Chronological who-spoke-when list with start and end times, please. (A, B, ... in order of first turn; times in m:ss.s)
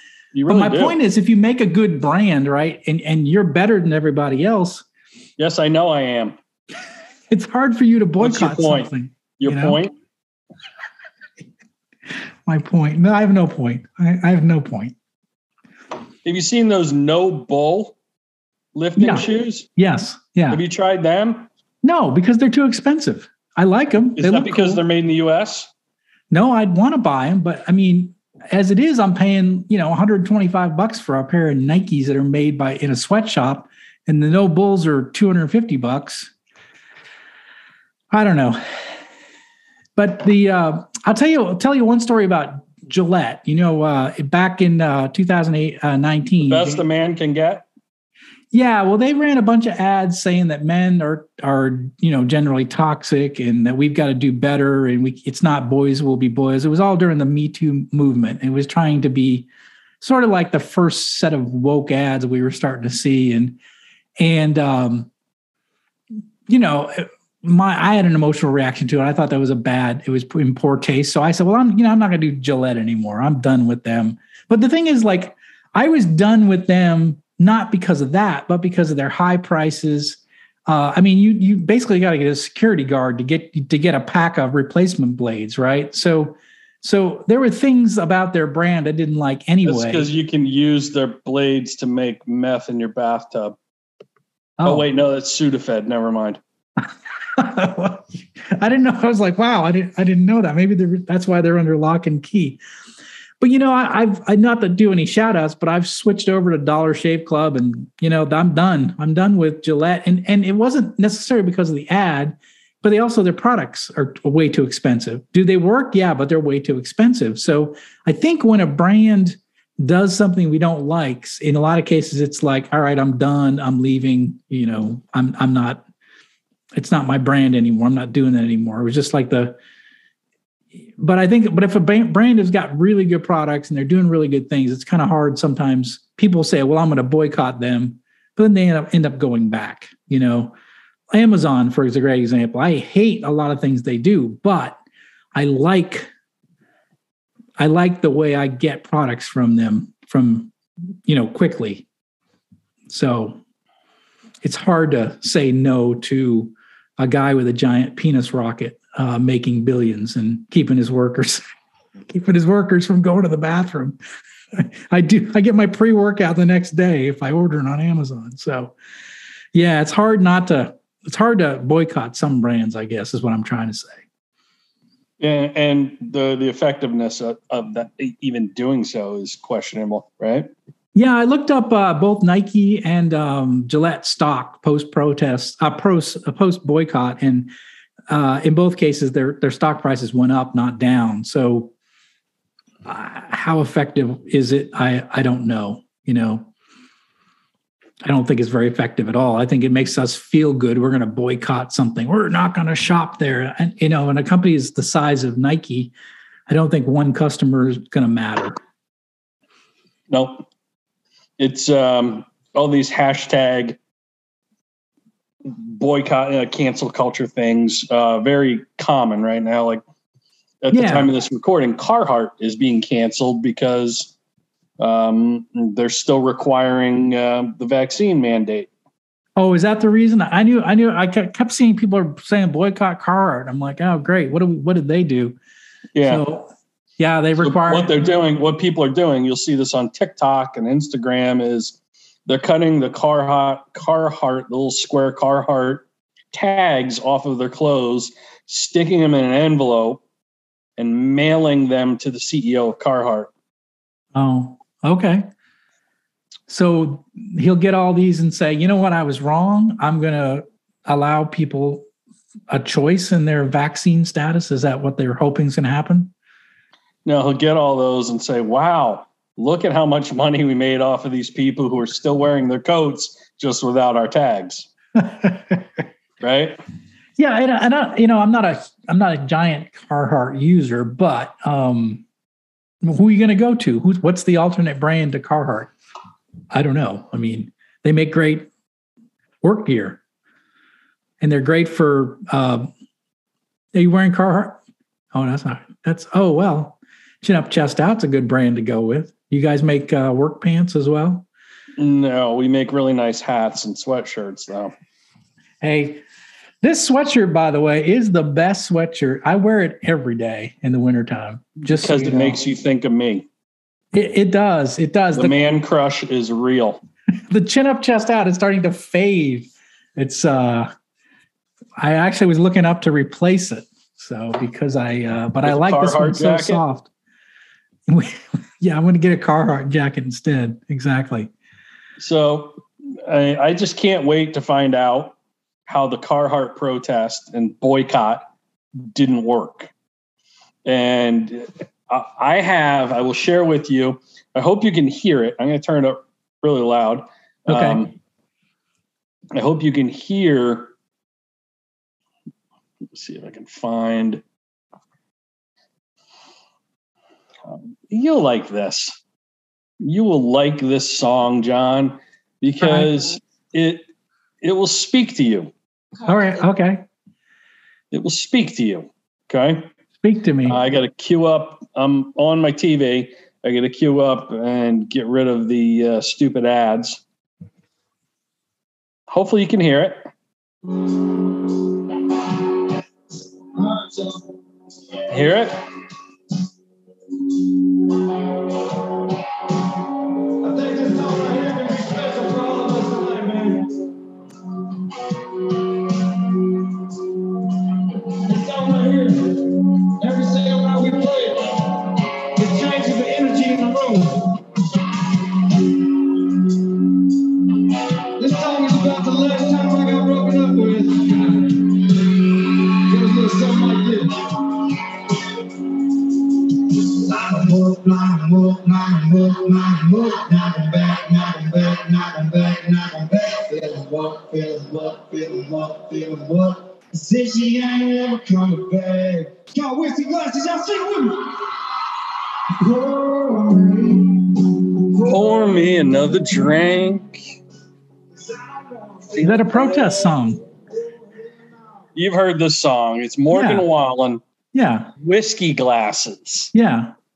0:00.3-0:01.0 A
0:00.5-0:04.8 B
0:05.4-0:06.4 A
0:07.3-0:09.8 B
0:08.2-0:09.9 A
0:12.4-0:14.9 B
0:16.2-0:18.0 A
0:18.7-0:19.7 A
0:19.0-0:20.6 B
0:20.5-0:21.5 A
0:21.8-0:24.8 B
0:24.2-0:25.7 A
0:26.3-0:36.3 B
0:38.1-0:39.0 B
0:40.0-0:46.8 B
0:46.4-0:47.6 A
0:48.5-0:59.5 B
1:00.0-1:03.6 B
1:04.2-1:05.1 B
1:06.5-1:30.0 B
1:29.6-1:33.6 A
1:34.6-1:34.9 B
1:34.6-1:36.4 A
1:37.4-1:42.6 B
1:43.4-2:05.8 B
2:06.7-2:09.6 B
2:11.0-2:20.5 B
2:21.1-2:24.8 B
2:25.3-2:26.1 B
2:27.6-2:30.5 B
2:31.0-2:31.8 B
2:32.9-2:33.4 B
2:34.4-2:41.4 B
2:42.1-2:44.0 B
2:44.5-2:48.8 B
2:49.5-2:54.0 B
2:55.2-3:00.5 A
3:00.9-3:07.5 B
3:08.1-3:11.7 B
3:12.8-3:16.5 B
3:18.0-3:25.9 B
3:26.5-3:28.6 B
3:30.1-3:30.4 A
3:31.4-3:33.8 A
3:35.4-3:39.8 A
3:40.6-3:44.1 A
3:40.7-3:41.1 B
3:44.8-3:48.7 A
3:49.4-3:55.4 B
3:55.9-3:56.2 A
3:56.0-3:58.1 B
3:57.4-4:01.8 A
4:02.3-4:10.0 A
4:10.8-4:13.3 A
4:14.1-4:15.3 B
4:16.5-4:21.8 B
4:22.5-4:26.1 B
4:27.0-4:34.7 A
4:35.0-4:35.6 B
4:36.2-4:36.6 A
4:37.2-4:42.0 B
4:42.8-4:45.7 B
4:46.5-4:48.5 B
4:49.4-4:50.0 B
4:51.2-4:52.7 B
4:53.7-4:54.6 B
4:55.1-5:01.2 B
5:01.8-5:04.7 A
5:05.6-5:06.0 B
5:06.6-5:12.4 B
5:11.7-5:13.3 A
5:13.9-5:15.4 B
5:15.1-5:16.8 A
5:17.3-5:20.7 B
5:21.8-5:26.9 B
5:25.4-5:26.6 A
5:27.9-5:31.3 B
5:32.0-5:35.1 A
5:35.7-5:38.2 A
5:38.8-5:39.7 A
5:40.6-5:47.9 A
5:47.5-5:47.8 B
5:49.3-5:50.7 A
5:52.9-5:54.2 A
5:57.5-5:59.0 A
5:59.8-6:03.9 A
6:02.6-6:02.9 B
6:04.4-6:05.5 A
6:06.0-6:06.8 B
6:07.9-6:09.7 A
6:10.0-6:10.6 B
6:10.4-6:17.0 A
6:19.1-6:20.1 A
6:23.5-6:24.2 C
6:25.1-6:25.6 A
6:30.4-6:33.7 C
6:38.0-6:44.4 C
6:48.1-6:54.5 C
6:56.7-7:11.6 C
7:12.5-7:15.3 C
7:15.0-7:17.2 A
7:18.3-7:20.2 C
7:19.2-7:20.4 B
7:21.9-7:24.2 A
7:23.3-7:23.7 B
7:24.5-7:24.9 B
7:25.0-7:26.5 A
7:26.5-7:26.9 B